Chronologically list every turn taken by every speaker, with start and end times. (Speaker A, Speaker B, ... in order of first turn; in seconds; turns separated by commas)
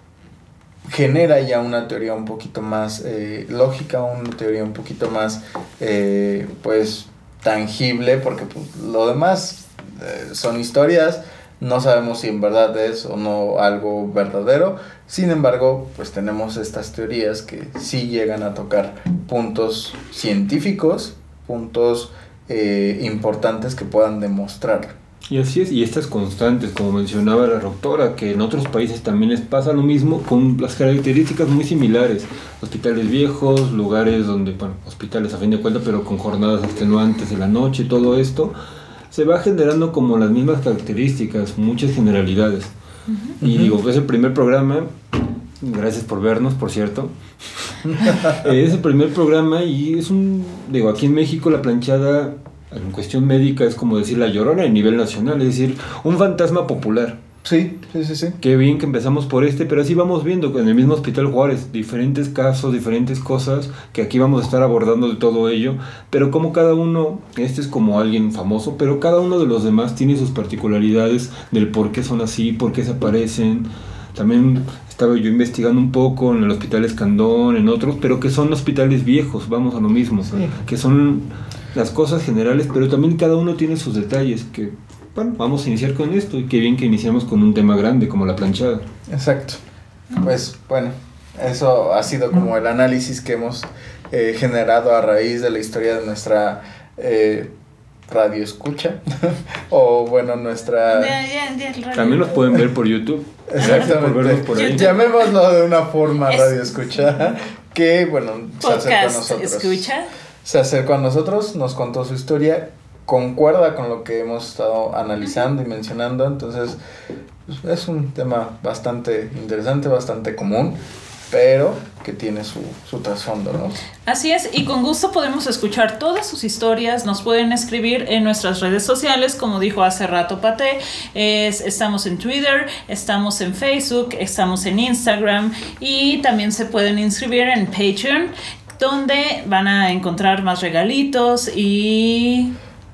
Speaker A: 0.9-24.9, Speaker B: 25.3-38.5, Speaker B: 39.1-42.7, Speaker B: 43.4-57.2, Speaker A: 43.4-43.8, Speaker A: 57.4-58.4, Speaker B: 58.4-88.8, Speaker A: 89.1-89.6, Speaker A: 90.2-97.5, Speaker A: 98.1-101.1, Speaker C: 100.9-102.4, Speaker B: 101.9-104.9, Speaker A: 103.5-109.9, Speaker C: 103.6-103.9, Speaker C: 104.5-105.2, Speaker C: 106.3-106.6, Speaker C: 108.6-110.1, Speaker A: 110.4-116.8, Speaker A: 117.5-120.8, Speaker A: 121.3-123.8, Speaker C: 124.0-142.5